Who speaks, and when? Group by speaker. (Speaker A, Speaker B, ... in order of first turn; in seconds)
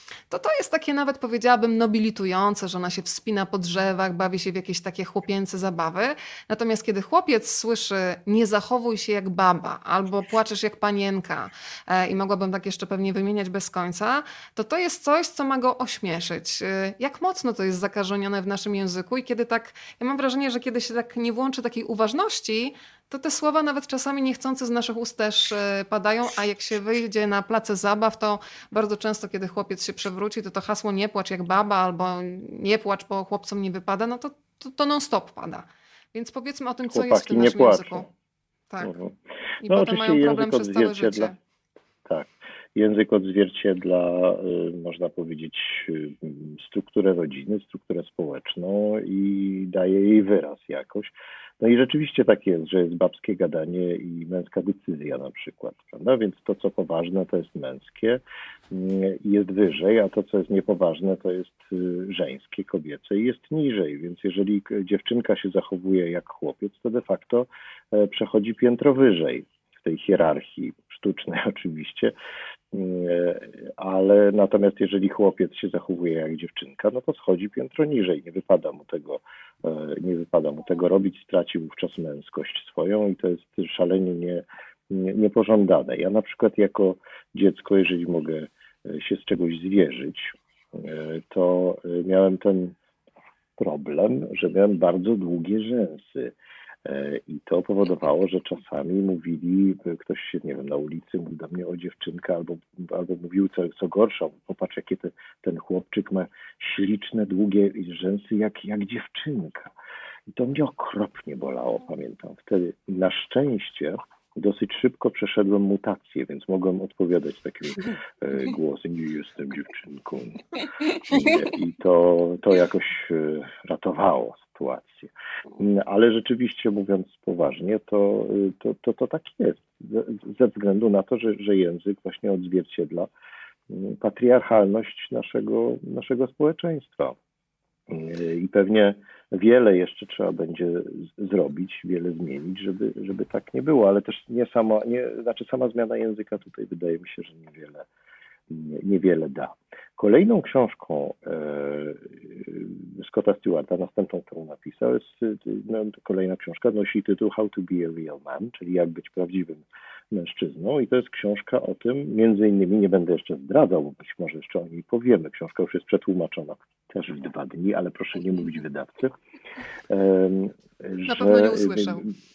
Speaker A: 0.3-38.1, 38.7-39.0, 39.6-41.4, 171.1-172.1
Speaker B: 36.9-38.1, 38.8-39.1, 39.6-41.3, 42.0-72.1, 72.7-92.8, 93.6-109.7, 110.3-133.1, 133.7-137.2, 137.9-147.8, 148.5-169.1, 169.9-172.0